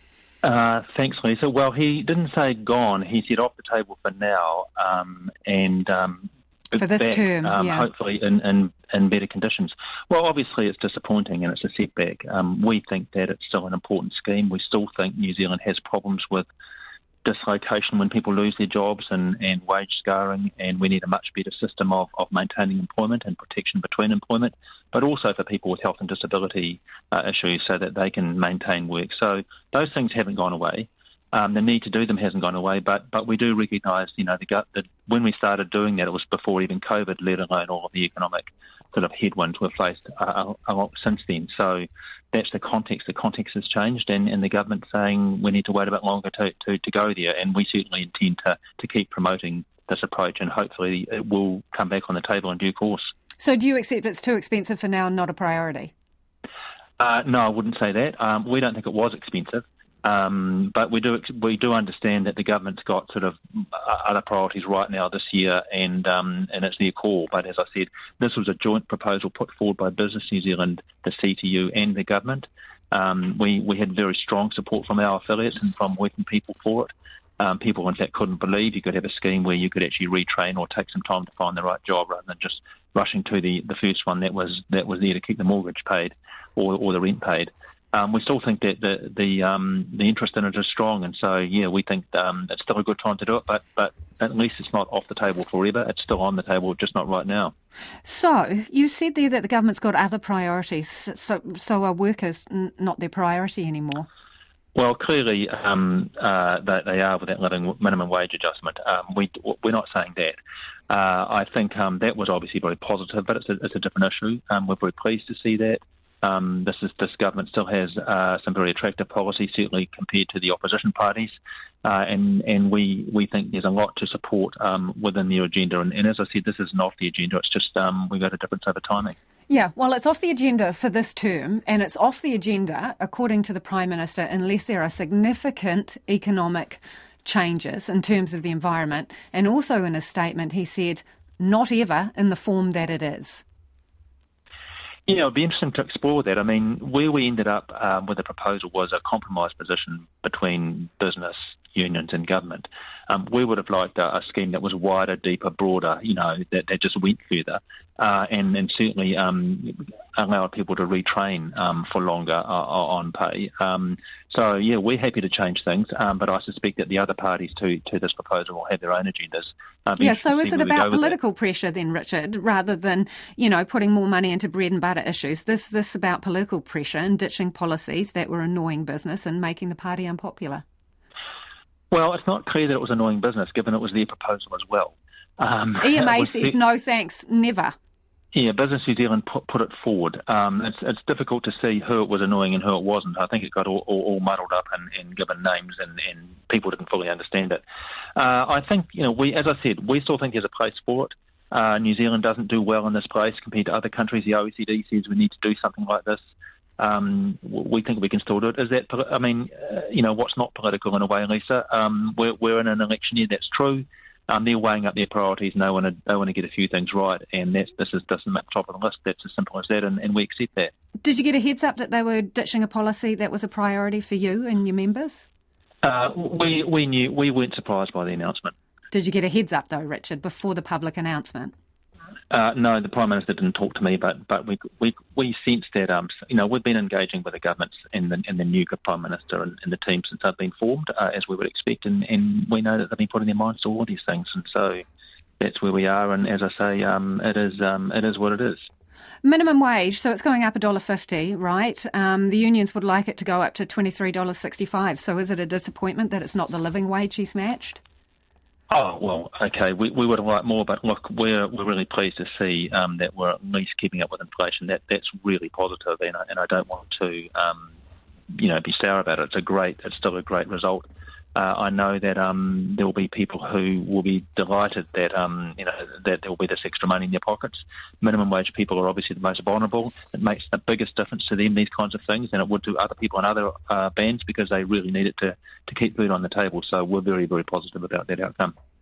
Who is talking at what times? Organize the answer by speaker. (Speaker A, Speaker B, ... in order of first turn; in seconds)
Speaker A: 0.4-16.5, 17.2-53.1, 57.0-97.5, 104.8-110.4, 110.9-129.2, 145.1-171.2, 181.9-186.6, 188.3-197.6, 198.2-206.2, 206.8-220.7, 225.8-228.5, 232.3-244.8, 245.4-248.6, 258.7-267.7, 268.3-288.5
Speaker B: 6.8-7.9, 53.4-55.9, 98.0-104.1, 129.5-143.4, 170.0-180.7, 185.8-187.7, 221.0-225.2, 228.9-231.5, 249.2-257.8